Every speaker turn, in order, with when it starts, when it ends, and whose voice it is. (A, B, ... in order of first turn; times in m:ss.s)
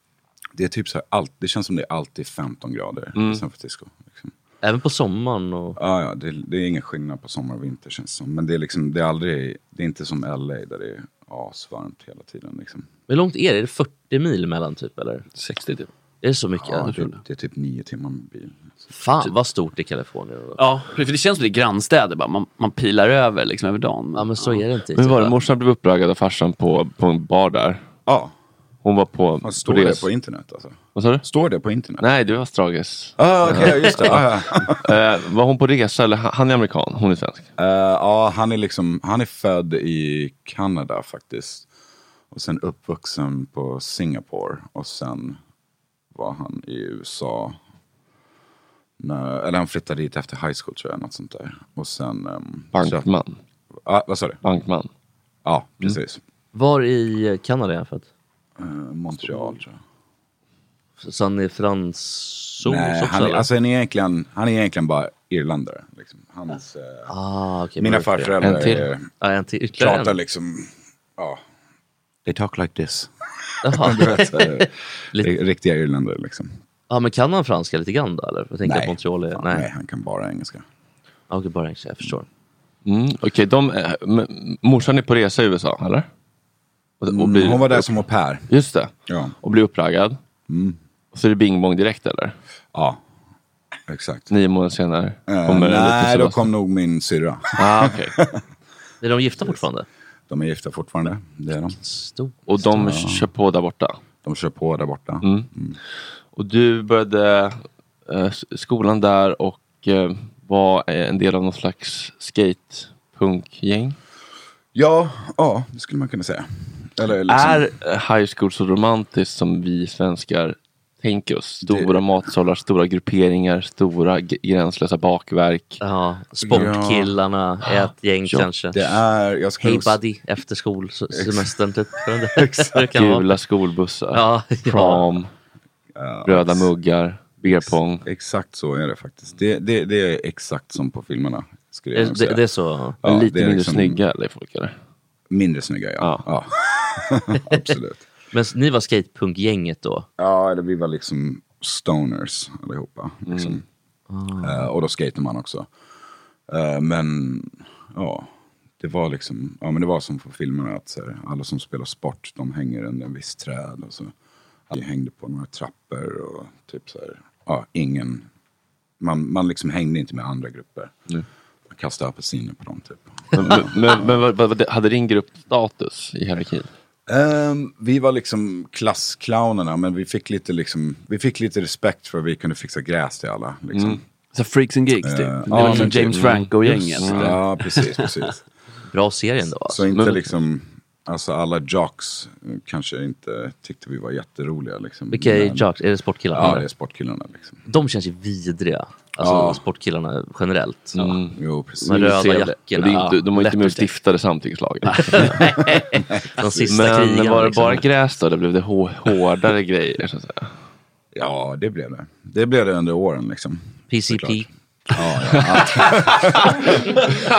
0:00.6-0:04.3 A
0:03.2-0:03.4 B
0:04.6-0:05.8 C
0:05.8-0:12.9 A
0:13.1-0:15.2 C
0:15.4-0:15.9 D
0:16.2-0:17.1 C
0:16.6-0:18.8 A
0:19.0-0:20.7 C
0:20.6-0:24.6 D
0:24.2-0:25.4 C
0:25.0-0:27.8 B
0:28.1-0:28.3 A
0:28.8-0:30.1 B
0:29.4-0:32.0 A
0:31.0-0:31.3 B
0:32.0-0:37.5 B
0:33.2-0:34.8 A
0:33.6-0:34.0 C
0:37.6-0:41.7 A
0:42.3-0:45.4 A
0:46.1-0:47.6 A
0:49.0-0:53.1 A
0:52.7-0:53.4 B
0:53.8-0:54.4 A
0:54.4-0:54.9 B
0:55.4-0:56.2 A
0:56.5-0:58.1 C
0:58.6-0:59.8 A
1:01.0-1:03.5 C
1:02.6-1:07.1 A
1:07.1-1:08.4 C
1:07.8-1:09.1 A
1:08.4-1:08.9 B
1:09.2-1:10.2 C
1:09.8-1:11.4 A
1:12.3-1:13.1 A
1:13.6-1:15.3 C
1:13.6-1:16.5 A
1:16.9-1:19.7 C
1:18.6-1:20.6 A
1:21.3-1:22.3 C
1:22.8-1:26.1 B
1:27.0-1:30.2 B
1:27.1-1:28.5 A
1:29.1-1:29.3 A
1:30.5-1:30.8 A
1:31.1-1:32.4 B
1:32.7-1:33.0 A
1:33.9-1:34.3 A
1:34.3-1:36.5 B
1:35.3-1:38.4 A
1:37.6-1:38.2 B
1:39.0-1:39.9 C
1:40.3-1:41.8 A
1:41.8-1:42.4 C
1:42.5-1:44.0 B
1:42.6-1:43.3 A
1:44.2-1:45.8 A
1:45.2-1:45.5 B
1:46.3-1:54.0 B
1:54.8-1:57.7 A
1:57.2-2:05.8 B
2:01.6-2:02.0 A
2:05.8-2:09.0 C
2:06.4-2:07.1 A
2:07.7-2:08.5 B
2:08.7-2:10.0 A
2:09.6-2:13.4 C
2:11.2-2:11.5 A
2:12.4-2:12.7 A
2:12.9-2:15.3 B
2:14.1-2:15.1 C
2:16.0-2:16.7 A
2:16.2-2:18.1 B
2:17.6-2:22.4 A
2:21.9-2:23.0 C
2:23.0-2:24.0 A
2:23.0-2:24.8 B
2:25.3-2:28.1 A
2:26.0-2:26.3 B
2:28.3-2:30.1 C
2:30.2-2:33.6 A
2:33.3-2:33.6 B
2:34.1-2:34.7 C
2:34.4-2:35.7 A
2:36.5-2:44.1 A
2:44.7-2:48.3 A
2:49.0-2:50.9 A
2:51.7-2:54.1 A
2:53.3-2:56.7 B
2:57.1-3:04.0 A
3:03.7-3:04.0 B
3:04.3-3:08.1 D
3:05.0-3:06.3 A
3:05.5-3:05.9 C
3:05.6-3:07.4 B
3:07.0-3:08.4 A
3:08.9-3:09.9 C
3:09.7-3:15.7 A
3:09.9-3:10.3 B
3:15.1-3:16.7 C
3:16.3-3:17.6 A
3:17.7-3:21.2 C
3:19.2-3:19.6 A
3:21.0-3:25.4 B
3:21.3-3:22.0 A
3:21.8-3:23.8 C
3:24.9-3:25.3 D
3:25.1-3:27.8 C
3:26.7-3:30.5 B
3:31.1-3:36.8 A
3:33.9-3:34.5 C